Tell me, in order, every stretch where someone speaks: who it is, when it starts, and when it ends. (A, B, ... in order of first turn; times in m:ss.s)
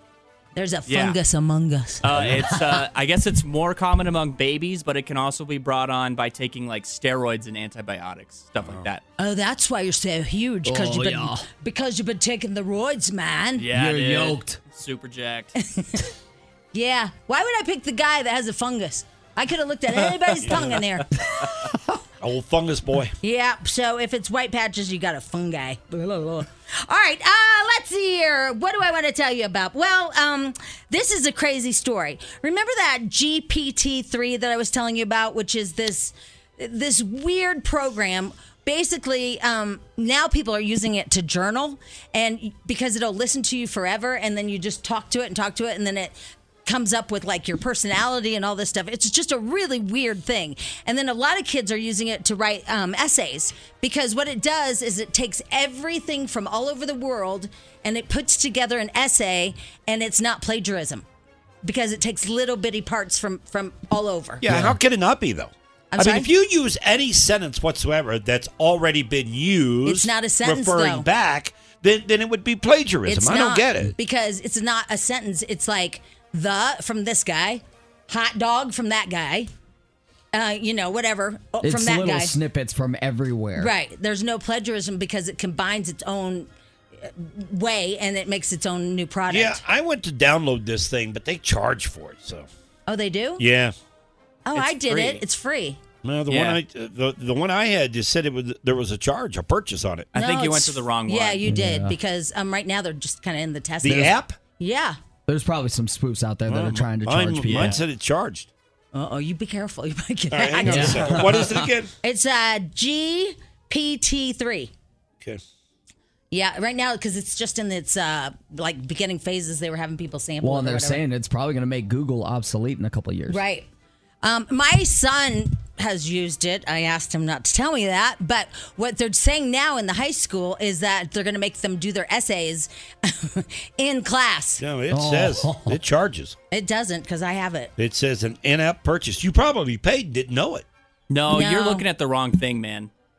0:00.6-0:02.0 A
0:00.9-0:01.2 B
0:02.0-0:09.0 B
0:02.1-0:02.5 C
0:08.6-0:08.9 C
0:09.2-0:13.7 A
0:10.6-0:11.5 D
0:13.6-0:15.5 B
0:13.7-0:14.6 D
0:15.7-0:16.1 A
0:16.7-0:21.7 A
0:20.4-0:20.8 C
0:22.2-0:23.1 C
0:23.2-1:01.0 A
1:01.6-1:04.4 A
1:04.4-1:13.9 C
1:04.5-1:04.8 D
1:05.9-1:06.3 A
1:09.8-1:11.1 A
1:13.1-1:19.5 A
1:20.3-1:22.3 A
1:21.6-1:23.7 D
1:23.6-1:29.6 A
1:29.3-1:32.5 C
1:32.9-1:33.4 A
1:33.4-1:33.8 C
1:34.5-1:35.8 A
1:34.5-1:35.2 B
1:36.0-1:40.1 C
1:36.3-1:36.6 B
1:40.1-1:41.5 B
1:40.1-1:45.0 A
1:41.5-1:42.0 D
1:43.8-1:44.4 C
1:45.3-1:47.8 D
1:46.5-1:48.5 C
1:48.9-1:51.3 A
1:50.3-1:51.9 C
1:50.7-1:51.6 D
1:52.0-1:54.7 A
1:56.3-2:01.0 A
2:00.4-2:03.4 D
2:03.3-2:03.7 A
2:04.2-2:14.6 A
2:14.6-2:16.4 C
2:14.9-2:15.8 D
2:16.5-2:17.7 A
2:17.8-2:20.6 C
2:21.1-2:22.9 B
2:21.3-2:21.9 A